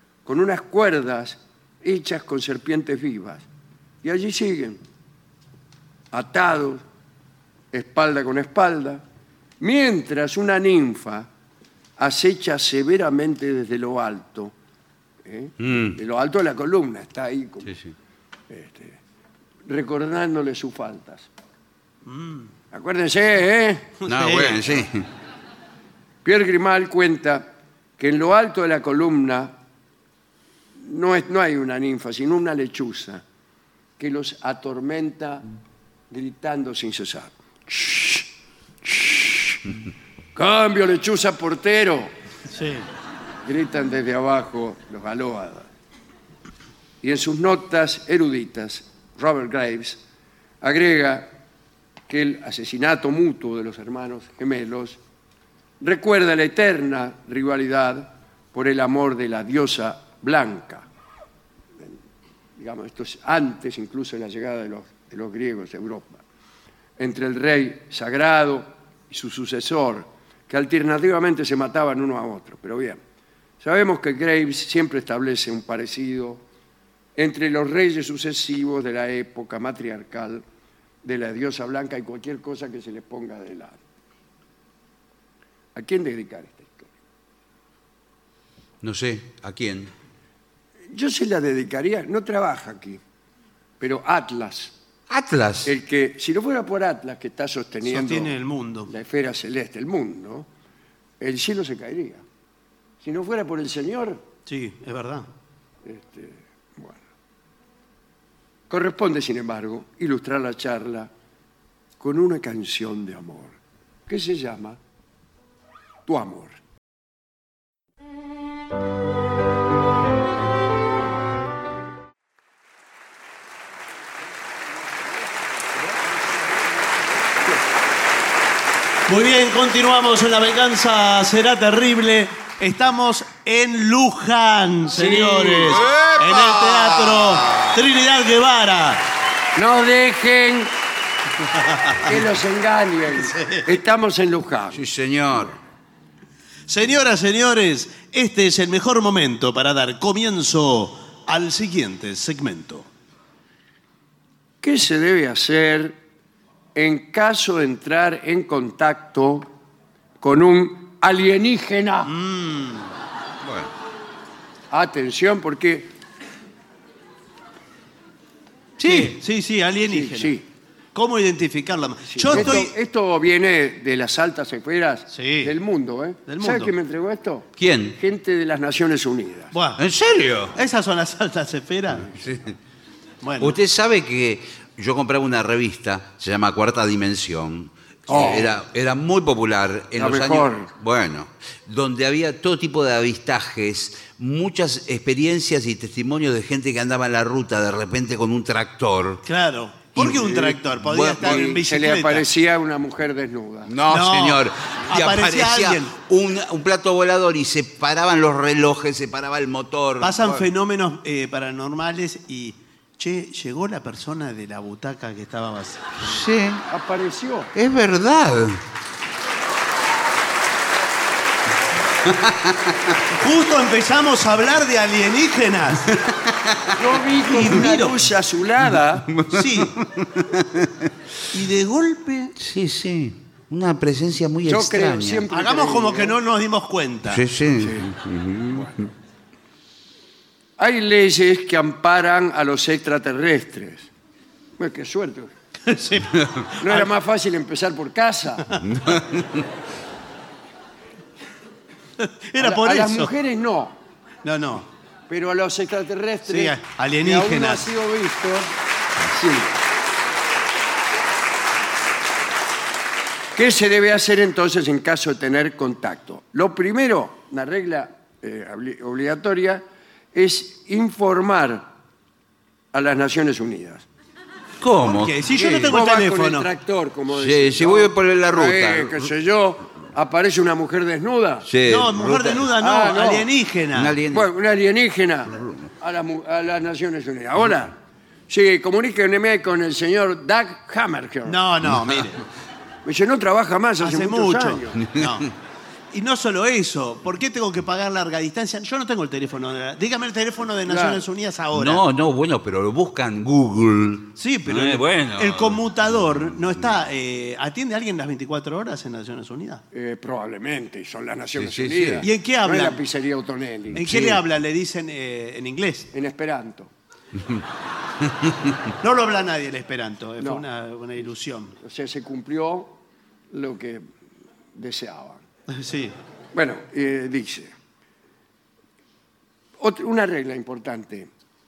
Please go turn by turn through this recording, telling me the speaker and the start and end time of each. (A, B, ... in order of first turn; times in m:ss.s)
0:00.3-0:03.5 A
0:04.0-0:04.8 A
0:06.1-0:06.8 A
0:07.7-0:09.0 A
0:09.6-0:11.3 A
0:12.0-0:14.5 A
0:15.2-0:17.8 A
0:15.6-0:16.0 B
0:18.5-0:19.0 A
0:19.7-0:21.3 A
0:22.1-0:22.5 C
0:22.7-0:24.0 A
0:24.0-0:24.7 C
0:24.0-0:25.1 B
0:26.2-0:29.5 A
0:30.8-0:33.2 A
0:34.0-0:35.4 A
0:36.1-0:38.3 A
0:38.8-0:39.6 A
0:40.4-0:42.1 A
0:42.5-0:42.9 C
0:43.4-0:45.7 A
0:47.0-0:50.0 A
0:50.6-0:51.3 A
0:52.1-0:55.0 A
0:55.8-1:00.9 A
1:02.6-1:06.2 A
1:07.0-1:13.0 A
1:13.6-1:16.4 A
1:17.2-1:20.4 A
1:21.0-1:23.8 A
1:25.8-1:26.9 A
1:28.8-1:29.9 B
1:30.9-1:33.0 A
1:33.8-1:34.7 A
1:35.1-1:35.7 B
1:35.6-1:38.4 A
1:37.8-1:38.9 C
1:38.9-1:40.5 A
1:41.2-1:42.2 A
1:43.0-1:44.2 A
1:44.5-1:45.3 C
1:45.8-1:47.0 A
1:48.7-1:51.1 A
1:52.0-1:53.6 A
1:54.1-1:54.8 A
1:56.1-1:56.6 A
2:05.9-2:07.2 A
2:09.1-2:19.0 C
2:15.0-2:15.8 A
2:15.7-2:17.8 B
2:19.6-2:20.7 A
2:21.4-2:22.2 C
2:22.0-2:24.8 A
2:23.1-2:23.8 C
2:24.7-2:25.6 B
2:26.7-2:32.9 C
2:34.6-2:36.0 A
2:36.8-2:39.5 A
2:40.2-2:42.1 A
2:42.0-2:42.9 C
2:43.4-2:43.7 B
2:44.7-2:45.9 A
2:48.8-2:49.2 B
2:48.8-2:50.4 C
2:49.9-2:50.4 A
2:51.0-2:52.7 C
2:52.1-2:59.5 A
2:52.3-2:52.6 B
2:55.1-2:55.5 C
2:56.3-2:56.7 C
2:57.6-2:58.0 B
2:59.5-2:59.8 C
2:59.8-3:00.6 B
3:00.6-3:02.1 C
3:02.1-3:02.6 B
3:03.2-3:03.6 C
3:03.4-3:19.2 B
3:08.1-3:08.5 A
3:10.0-3:10.7 A
3:19.2-3:22.3 C
3:20.0-3:21.5 B
3:20.2-3:20.6 A
3:21.2-3:23.7 A
3:23.7-3:30.5 B
3:23.9-3:26.0 C
3:30.0-3:36.1 C
3:36.0-3:36.6 B
3:36.7-3:37.5 A
3:37.5-3:38.6 B
3:42.0-3:43.0 B
3:43.2-3:45.9 C
3:45.9-3:46.8 B
3:46.7-3:49.1 A
3:47.2-3:48.0 C
3:49.1-3:50.9 B
3:49.3-3:49.8 C
3:51.3-3:52.3 C
3:52.4-3:55.2 B
3:54.5-3:56.2 A
3:55.3-3:57.2 C
3:57.1-3:58.9 B
3:57.6-3:57.9 A
4:00.6-4:03.9 A
4:04.6-4:05.3 A
4:05.6-4:06.9 C
4:06.6-4:08.5 A
4:08.6-4:09.5 B
4:12.0-4:13.1 C
4:12.4-4:13.8 A
4:14.2-4:14.7 C
4:15.1-4:18.5 A
4:16.3-4:17.7 C
4:19.1-4:19.6 A
4:23.4-4:29.6 A
4:30.1-4:31.7 A
4:32.7-4:33.9 A
4:34.6-4:35.7 B
4:34.8-4:36.5 C
4:35.7-4:41.5 A
4:37.1-4:39.1 B
4:41.4-4:42.4 B
4:41.6-4:44.0 C
4:42.5-4:43.3 A
4:43.7-4:44.3 B
4:44.1-4:47.8 A
4:45.3-4:45.7 B
4:48.3-4:51.4 A
4:51.3-4:52.2 C
4:52.8-4:54.8 A
4:53.8-4:55.3 C
4:54.8-4:55.2 B
4:55.9-5:01.8 C
5:00.7-5:01.1 A
5:01.5-5:06.7 B
5:04.2-5:09.6 C
5:09.7-5:13.9 A
5:11.4-5:12.1 B
5:12.0-5:12.8 C
5:13.7-5:14.2 B
5:13.8-5:15.9 C
5:15.9-5:16.7 A
5:18.0-5:18.5 B
5:18.8-5:21.6 C
5:20.2-5:20.5 A
5:21.6-5:22.8 A
5:23.3-5:23.9 A
5:24.6-5:25.2 A
5:25.5-5:26.0 C
5:26.3-5:27.5 A
5:29.6-5:31.1 A